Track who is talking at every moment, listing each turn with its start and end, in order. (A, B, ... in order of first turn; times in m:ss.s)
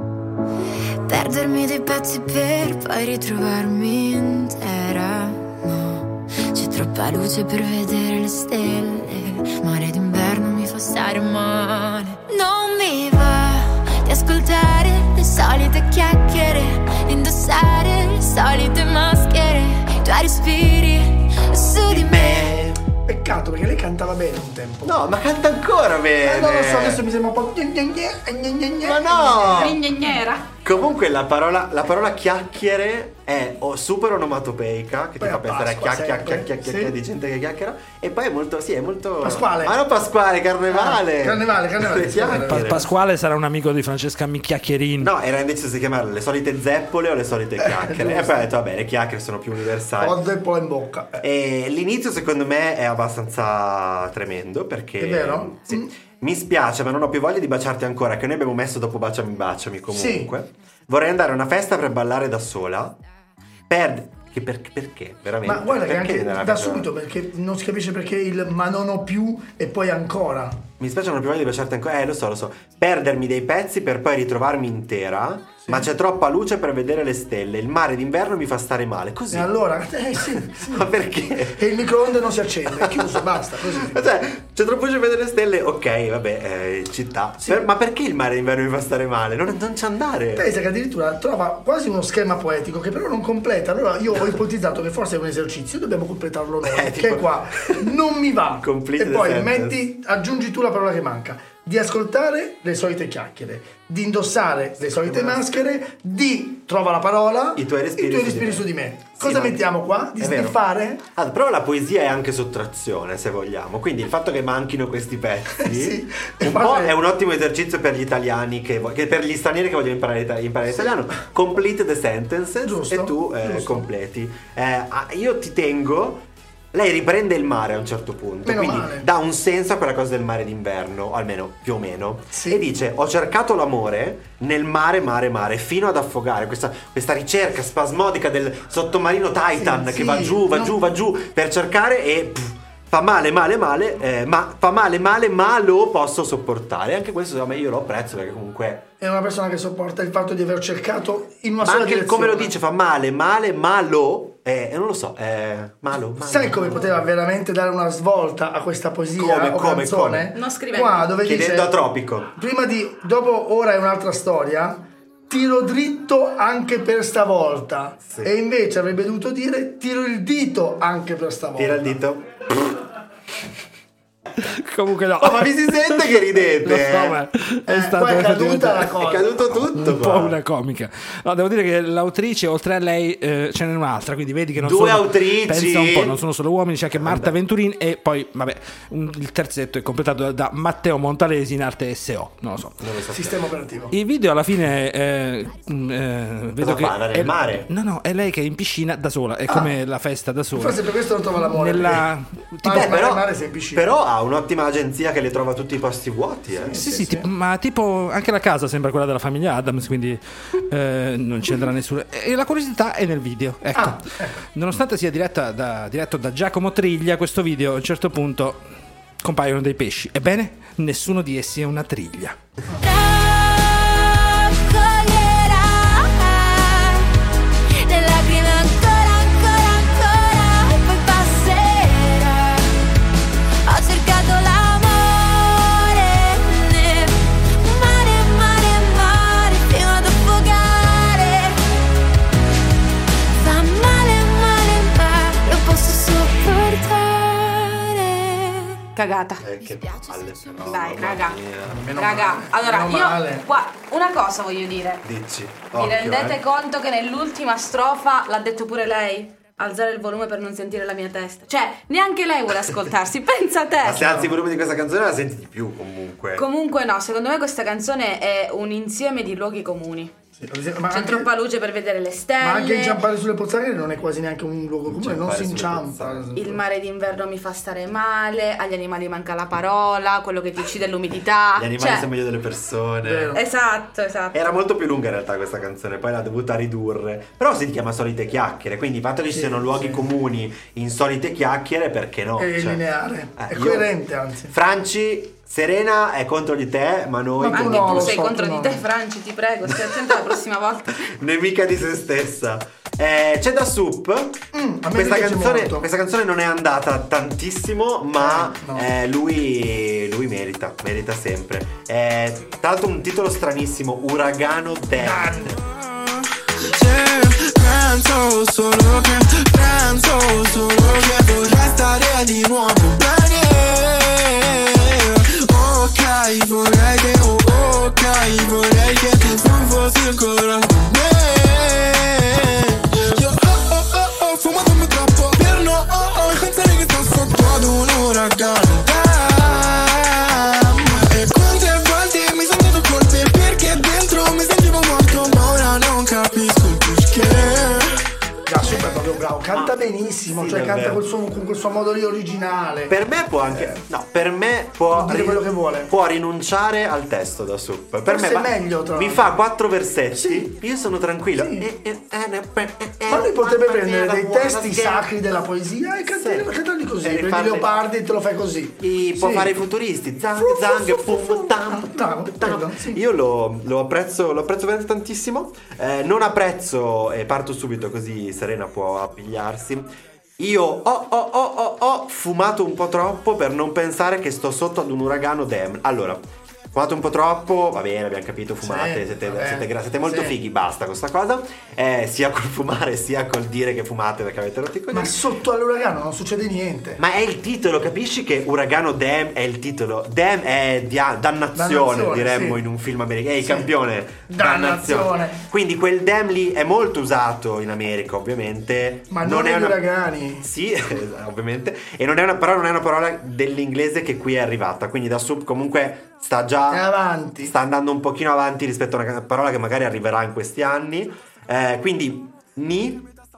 0:01.1-0:22.5 A
0:21.9-0:22.8 B
0:23.0-0:24.9 C
0:24.8-0:27.0 B
0:26.2-0:29.8 C
0:28.8-0:29.8 B
0:29.4-0:30.5 D
0:30.6-0:42.9 B
0:35.2-0:36.9 C
0:39.2-0:39.8 C
0:40.7-0:42.8 C
0:42.3-0:45.1 E
0:45.0-0:50.2 B
0:47.6-0:48.5 C
0:50.0-0:51.2 C
0:51.2-1:03.0 B
0:55.0-0:55.9 C
0:59.9-1:00.3 C
1:03.7-1:06.9 B
1:05.4-1:10.6 C
1:10.8-1:19.5 B
1:19.3-1:24.0 C
1:20.5-1:21.6 B
1:22.8-1:30.4 B
1:30.4-1:51.0 C
1:36.6-1:37.9 B
1:38.6-1:39.8 B
1:44.8-1:45.4 B
1:47.6-1:49.6 B
1:50.2-1:50.6 B
1:51.1-2:28.8 B
1:55.6-1:57.0 C
2:02.6-2:03.9 C
2:08.4-2:09.1 C
2:12.3-2:12.6 C
2:19.6-2:20.8 C
2:29.0-2:32.5 C
2:31.6-2:37.1 B
2:36.2-2:41.7 C
2:39.2-2:40.3 B
2:40.3-2:41.2 D
2:41.2-2:42.3 B
2:42.3-2:52.0 C
2:51.6-2:52.3 B
2:54.4-2:58.9 E
2:55.2-2:57.2 B
2:57.7-2:59.3 C
2:58.9-3:00.4 B
2:59.5-3:12.8 E
3:04.6-3:06.2 B
3:06.9-3:07.3 B
3:12.8-3:13.4 B
3:13.1-3:13.9 C
3:13.9-3:20.8 E
3:16.6-3:17.7 B
3:20.5-3:22.1 C
3:21.4-3:22.9 E
3:22.6-3:23.9 C
3:22.6-3:26.8 B
3:26.6-3:27.3 C
3:26.8-3:38.6 E
3:33.7-3:34.4 C
3:39.2-3:42.4 E
3:42.8-3:47.1 A
3:47.8-3:52.7 A
3:53.6-4:01.6 A
4:03.4-4:08.8 A
4:08.9-4:09.4 D
4:09.4-4:11.9 B
4:09.6-4:10.5 A
4:10.6-4:11.4 D
4:11.6-4:13.5 C
4:11.9-4:15.0 D
4:15.0-4:16.4 B
4:15.7-4:24.2 D
4:23.8-4:26.4 B
4:24.0-4:24.3 C
4:26.4-4:30.1 D
4:30.4-4:31.3 C
4:30.9-4:33.0 D
4:32.4-4:36.6 C
4:34.9-4:36.3 B
4:36.3-4:42.1 D
4:41.6-4:43.3 B
4:43.0-4:43.4 C
4:43.3-4:44.4 D
4:44.3-4:52.8 B
4:49.3-4:50.0 C
4:52.4-4:54.5 C
4:53.4-4:53.9 B
4:54.5-4:58.2 B
4:57.4-4:58.9 C
4:57.5-5:01.1 D
5:01.1-5:15.5 B
5:04.5-5:05.8 C
5:08.1-5:08.9 C
5:15.0-5:15.6 C
5:15.7-5:48.0 F
5:48.5-5:52.9 C
5:49.5-5:51.0 B
5:52.9-6:05.1 B
5:53.5-5:53.8 C
5:54.9-5:55.9 C
5:58.0-5:59.4 C
6:00.1-6:00.5 C
6:01.4-6:01.6 C
6:03.1-6:09.6 C
6:06.1-6:07.7 B
6:08.8-6:26.2 B
6:10.4-6:13.0 C
6:26.7-6:35.1 B
6:28.6-6:30.4 C
6:34.9-6:37.0 C
6:37.0-6:49.8 B
6:41.5-6:42.6 C
6:43.4-6:43.7 C
6:44.3-6:45.4 C
6:49.1-6:50.5 C
6:50.4-6:56.9 B
6:56.7-6:57.5 C
6:57.4-7:03.1 B